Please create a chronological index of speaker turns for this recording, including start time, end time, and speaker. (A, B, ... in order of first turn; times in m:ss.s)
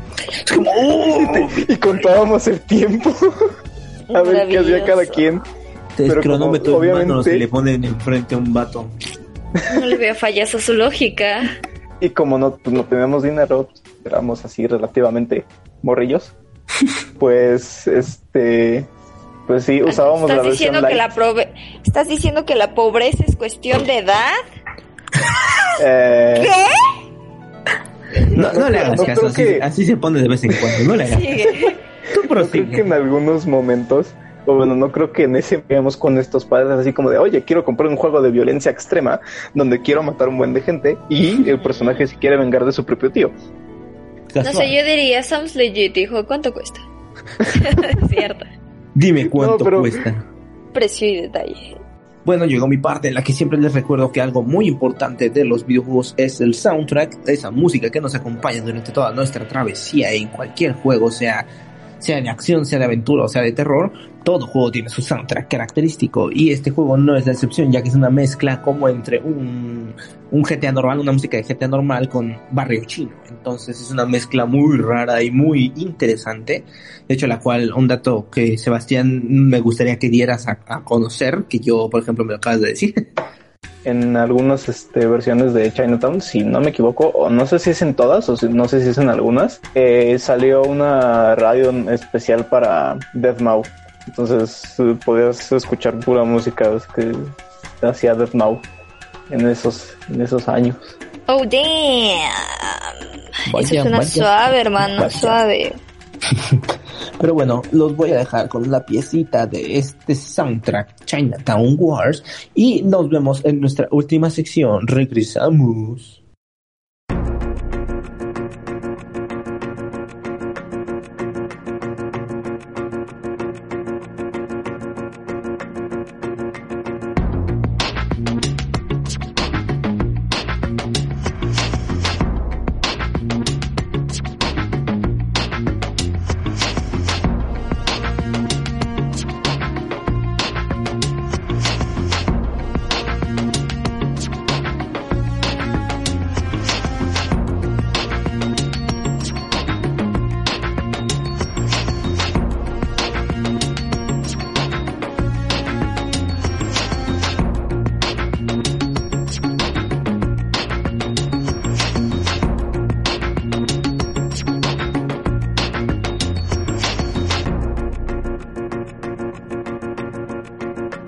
0:00.4-0:02.2 A
0:01.1-0:03.2 B
0:04.1-0:05.2 C
0:04.1-0:05.4 B
0:06.0-0:08.9 A
0:06.1-0:07.4 B
0:09.7-0:11.5 C
0:12.0-0:16.3 B
0:17.2-0:18.9 B
0:19.5-0:21.0 B
0:19.8-0:24.4 C
0:25.8-0:26.5 B
0:26.4-0:26.7 C
0:28.2-0:29.6 B
0:28.3-0:31.6 A
0:31.0-0:31.7 C
0:32.1-0:33.0 A
0:32.2-0:43.3 B
0:44.3-0:44.8 A
0:44.4-0:46.8 C
0:47.5-0:48.5 C
0:49.0-0:50.3 A
0:49.3-0:50.0 B
0:50.7-0:51.8 C
0:52.2-1:01.5 A
1:02.0-1:23.0 A
1:23.8-1:38.7 B
1:39.3-1:41.0 B
1:41.3-1:43.0 C
1:43.5-1:45.4 A
1:43.5-1:45.8 C
1:46.3-1:46.6 A
1:47.2-1:56.2 A